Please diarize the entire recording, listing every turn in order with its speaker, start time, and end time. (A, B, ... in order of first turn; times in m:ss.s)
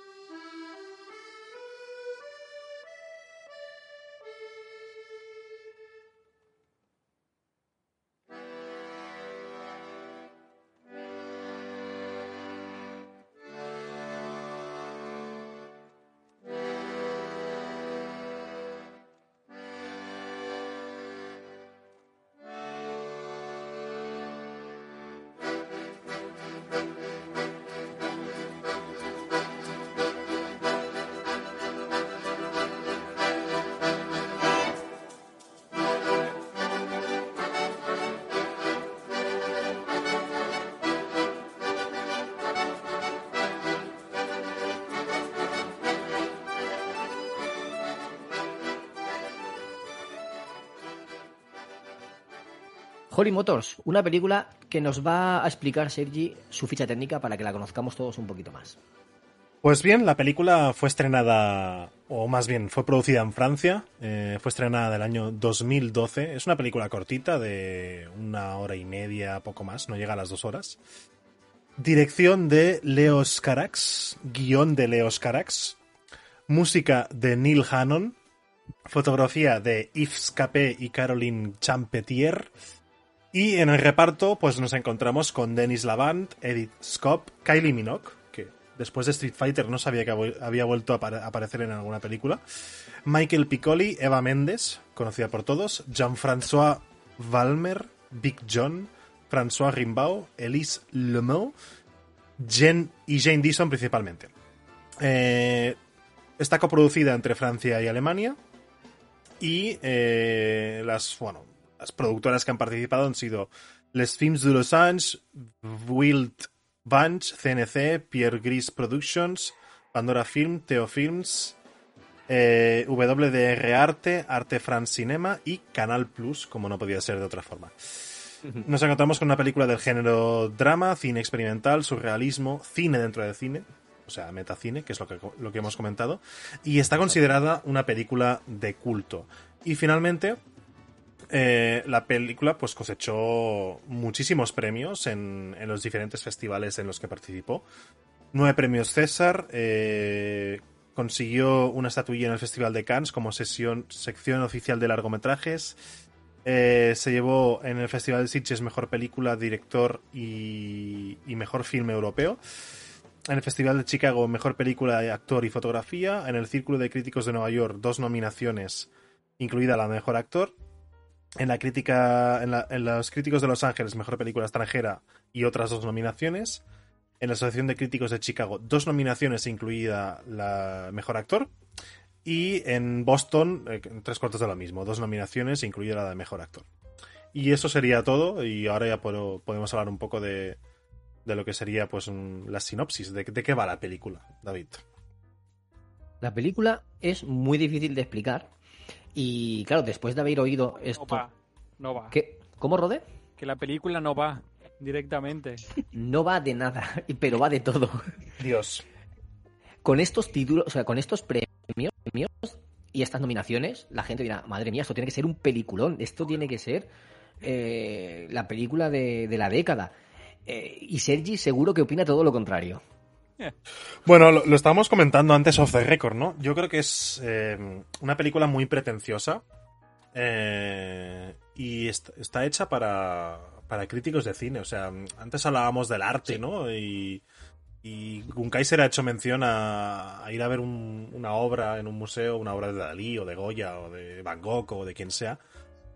0:53.1-0:58.8 A
0:59.6-1:10.8 B
1:11.8-1:15.8 B
1:16.5-1:18.2 B
1:18.9-1:22.5 B
1:23.3-1:32.4 B
1:33.1-1:41.6 B
1:42.4-1:44.3 B
1:45.0-1:45.8 B
1:46.4-1:48.4 B
1:49.4-2:01.6 B
2:02.3-2:20.4 B
2:21.3-2:27.6 B
2:28.3-2:35.8 B
2:36.4-2:42.4 B
2:43.3-2:50.6 B
2:51.4-2:56.6 B
2:57.2-3:01.5 B
3:02.2-3:06.7 B
3:07.3-3:10.6 B
3:11.2-3:14.8 B
3:16.2-3:18.5 A
3:19.2-3:21.2 A
3:20.8-3:22.2 C
3:22.1-3:23.0 A
3:23.4-3:25.7 C
3:25.9-3:28.0 A
3:28.4-3:28.8 B
3:29.8-3:36.9 A
3:37.4-3:39.9 A
3:40.5-3:42.8 A
3:44.0-3:49.4 B
3:50.1-3:57.2 B
3:57.8-4:05.4 B